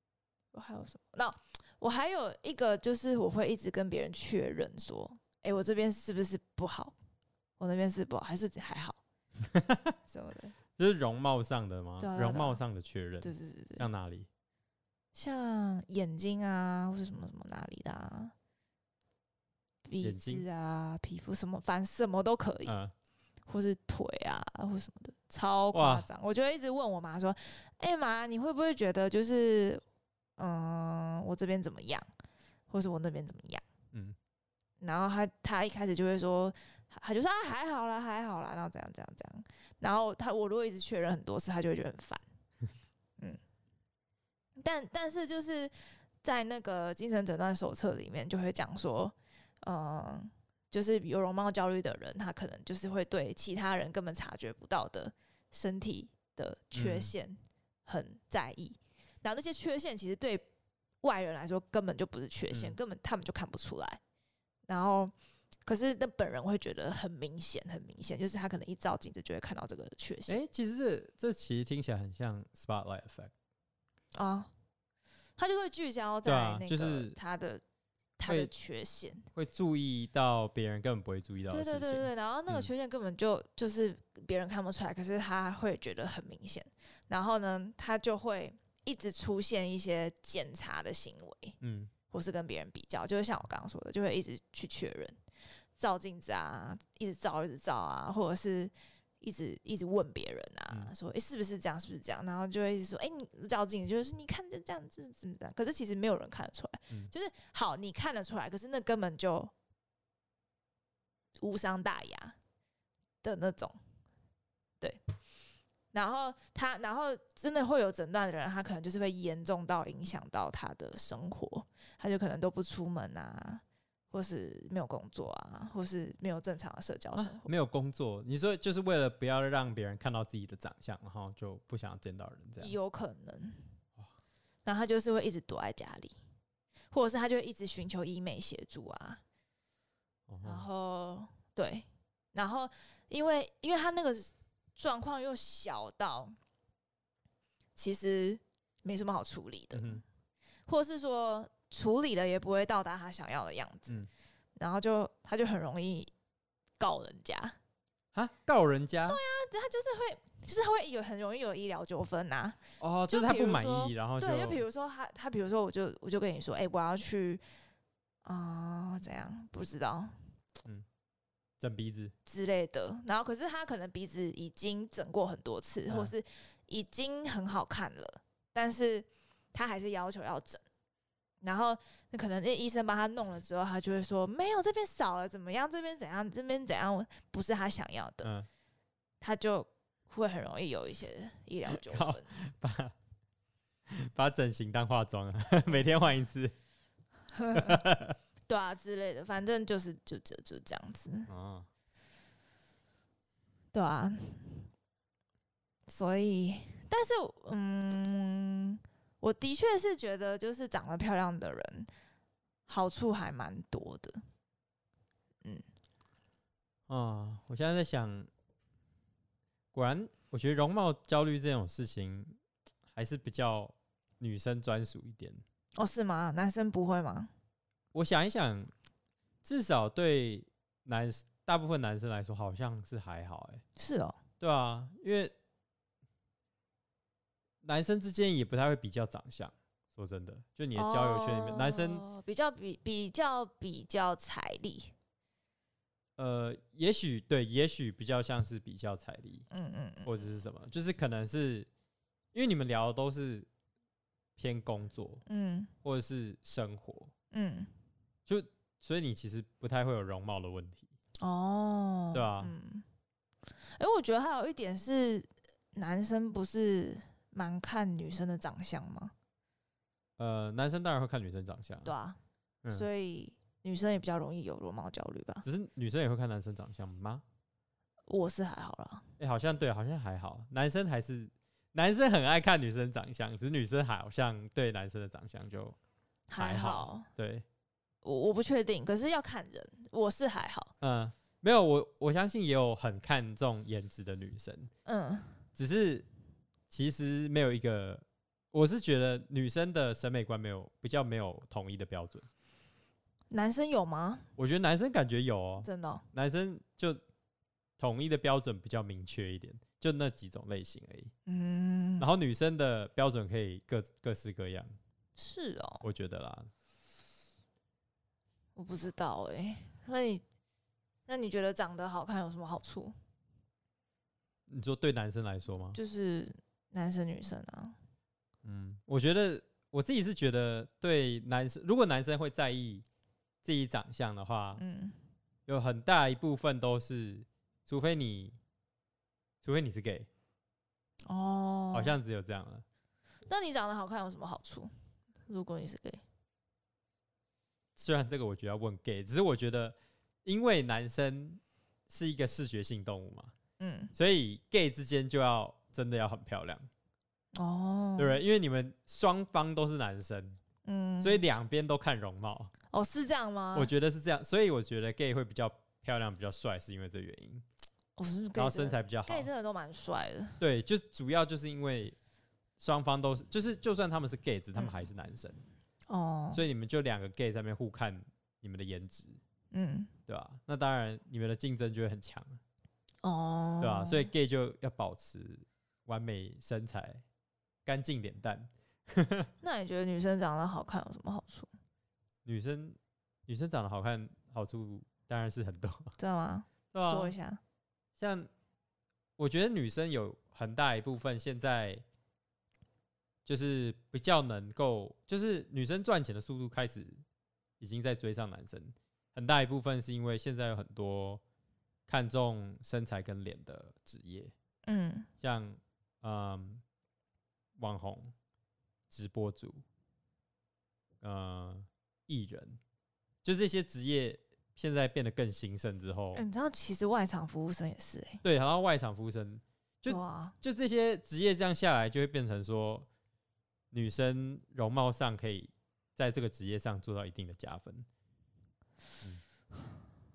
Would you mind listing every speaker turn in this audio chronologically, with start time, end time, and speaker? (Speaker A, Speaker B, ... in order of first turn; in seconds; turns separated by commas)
Speaker A: 0.5-6.9, Speaker A: 7.6-9.0, Speaker B: 9.4-9.9, Speaker A: 10.1-10.5, Speaker B: 10.8-14.3, Speaker A: 12.0-12.6, Speaker A: 13.2-13.8, Speaker A: 15.1-18.3, Speaker A: 19.9-22.7, Speaker B: 20.0-20.4, Speaker B: 22.6-22.9, Speaker A: 23.5-29.8, Speaker B: 25.7-26.1, Speaker A: 30.4-32.1, Speaker A: 32.7-33.6, Speaker A: 34.8-42.2, Speaker A: 44.6-60.5, Speaker B: 56.7-57.1, Speaker A: 61.0-64.0, Speaker B: 62.5-62.8, Speaker A: 64.7-65.1, Speaker A: 65.6-70.4, Speaker B: 70.3-73.3, Speaker A: 74.1-74.5, Speaker A: 75.4-77.6, Speaker B: 76.2-77.2, Speaker A: 78.2-79.3, Speaker B: 78.2-78.5, Speaker B: 79.3-82.7, Speaker A: 81.5-91.6, Speaker B: 91.6-91.9, Speaker A: 92.1-95.2, Speaker A: 95.8-109.5, Speaker A: 111.4-112.3, Speaker A: 113.2-113.8, Speaker A: 115.9-127.5, Speaker B: 127.2-132.7, Speaker A: 132.6-133.7, Speaker A: 134.6-136.2, Speaker A: 136.9-139.2, Speaker B: 140.3-140.7, Speaker A: 140.4-146.3, Speaker A: 147.8-150.0, Speaker B: 149.7-150.0, Speaker A: 150.7-154.0, Speaker A: 154.6-156.1, Speaker A: 156.8-157.6, Speaker B: 158.1-159.2, Speaker A: 159.1-167.4, Speaker B: 162.8-164.6, Speaker A: 168.2-170.2, Speaker B: 171.6-172.1, Speaker A: 172.2-180.6, Speaker A: 181.4-188.3, Speaker B: 188.2-188.5, Speaker A: 189.2-192.3, Speaker B: 191.7-192.9, Speaker B: 193.9-196.5, Speaker A: 197.3-197.8, Speaker B: 197.5-198.2, Speaker A: 198.5-201.3, Speaker B: 201.3-201.7, Speaker A: 203.7-204.7, Speaker A: 205.9-211.9, Speaker A: 212.7-214.2, Speaker B: 216.9-218.3, Speaker B: 219.7-222.4, Speaker B: 222.9-225.4, Speaker A: 225.8-227.3, Speaker B: 227.9-228.7, Speaker B: 229.4-233.6, Speaker A: 233.8-234.2, Speaker B: 234.4-235.3, Speaker B: 237.6-242.0, Speaker A: 240.7-244.9, Speaker B: 246.2-249.5, Speaker A: 249.5-250.2, Speaker B: 250.0-251.7, Speaker B: 252.3-253.5, Speaker B: 254.4-255.2, Speaker A: 255.2-255.7, Speaker B: 255.8-257.1, Speaker A: 257.3-257.7, Speaker B: 258.2-260.9, Speaker A: 261.2-262.8, Speaker B: 262.1-262.5, Speaker A: 263.6-269.1, Speaker B: 270.2-271.9, Speaker A: 271.8-272.2, Speaker A: 272.7-275.4, Speaker B: 275.4-277.2, Speaker A: 278.1-279.1, Speaker B: 279.2-285.8, Speaker A: 286.3-287.1, Speaker B: 286.4-287.4, Speaker A: 288.0-290.7, Speaker B: 290.8-294.7, Speaker A: 294.9-295.4, Speaker B: 295.5-296.1, Speaker B: 296.7-302.3, Speaker A: 303.3-304.3, Speaker B: 304.4-307.0, Speaker A: 305.6-306.0, Speaker B: 307.8-311.1, Speaker A: 311.2-312.1, Speaker B: 312.0-314.8, Speaker A: 315.2-315.8, Speaker B: 315.8-316.5, Speaker A: 318.6-320.2, Speaker A: 321.1-322.9, Speaker B: 324.5-325.8, Speaker A: 325.7-327.8, Speaker B: 328.4-332.8, Speaker B: 333.4-334.6, Speaker A: 334.6-335.0, Speaker B: 335.5-338.4, Speaker B: 339.4-340.1, Speaker A: 341.1-341.9, Speaker B: 341.7-342.6, Speaker A: 343.3-344.7, Speaker A: 345.2-346.0, Speaker B: 347.8-353.3, Speaker A: 353.6-353.9, Speaker B: 353.9-356.7, Speaker A: 357.3-358.2, Speaker B: 358.0-360.4, Speaker A: 360.6-361.2, Speaker B: 361.0-362.5, Speaker A: 362.7-363.7, Speaker B: 363.5-367.4, Speaker A: 367.9-370.4, Speaker B: 368.4-369.3, Speaker B: 370.4-371.9, Speaker B: 372.6-375.4, Speaker A: 374.5-374.8, Speaker A: 375.9-376.4, Speaker B: 376.3-379.2, Speaker A: 379.5-379.9, Speaker B: 380.1-382.4, Speaker A: 383.0-384.1, Speaker B: 383.6-387.0, Speaker B: 387.6-389.3, Speaker A: 389.4-391.5, Speaker B: 392.2-395.9, Speaker A: 396.0-397.4, Speaker B: 396.7-397.1, Speaker B: 398.0-398.3, Speaker B: 399.2-401.8, Speaker B: 403.2-407.0, Speaker B: 407.6-411.2, Speaker B: 411.9-414.3, Speaker A: 414.6-415.1, Speaker B: 415.2-416.6, Speaker B: 417.6-418.1, Speaker B: 418.9-419.6, Speaker B: 421.0-422.6, Speaker B: 423.2-426.2, Speaker A: 426.1-428.2, Speaker B: 428.2-432.9, Speaker A: 429.9-430.4, Speaker B: 433.7-437.9